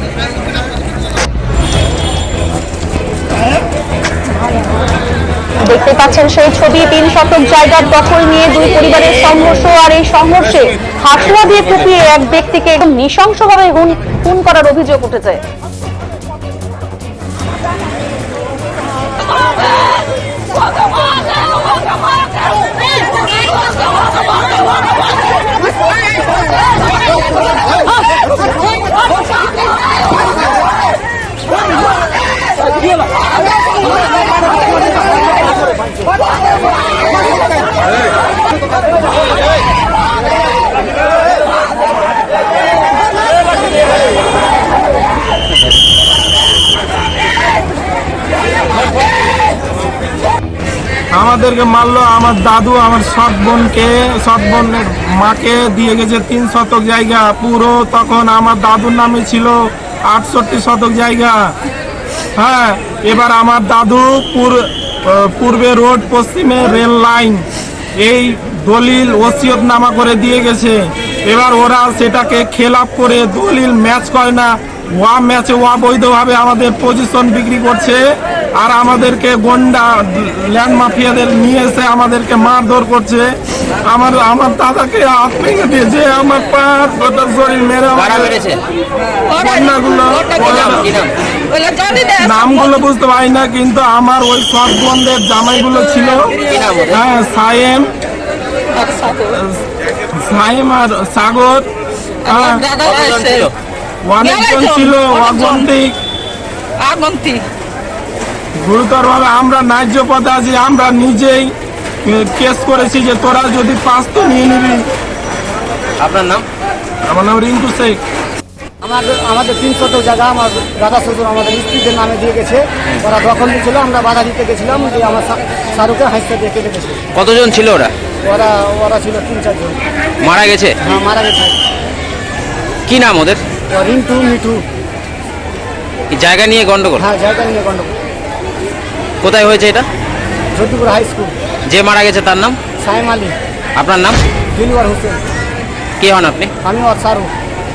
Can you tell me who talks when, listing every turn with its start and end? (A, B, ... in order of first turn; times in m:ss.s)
0:05.6-0:15.4 A
0:51.1-1:01.5 B
1:02.4-1:07.4 B
1:08.0-1:18.0 B
1:18.5-1:28.4 B
1:28.0-1:28.6 C
1:29.3-1:30.9 B
1:30.4-1:31.1 C
1:31.6-1:32.2 D
1:32.0-1:36.4 B
1:36.4-1:37.0 C
1:36.9-1:37.9 B
1:38.8-1:39.3 D
1:39.2-1:41.7 B
1:42.2-1:42.7 B
1:42.6-1:43.2 D
1:42.8-1:43.5 C
1:44.0-1:46.0 B
1:44.3-1:45.3 D
1:46.8-1:47.4 D
1:48.6-1:54.9 B
1:56.0-1:56.4 C
1:57.1-1:58.0 B
1:58.8-2:07.0 E
2:07.1-2:07.9 C
2:08.2-2:09.8 E
2:10.2-2:10.8 C
2:10.8-2:11.5 E
2:12.9-2:13.4 C
2:13.7-2:14.6 E
2:16.1-2:17.0 C
2:17.0-2:17.9 E
2:19.2-2:19.8 C
2:20.5-2:21.3 E
2:21.7-2:22.6 C
2:22.8-2:23.3 E
2:23.8-2:24.2 C
2:24.5-2:25.2 E
2:26.0-2:26.5 C
2:26.6-2:27.3 E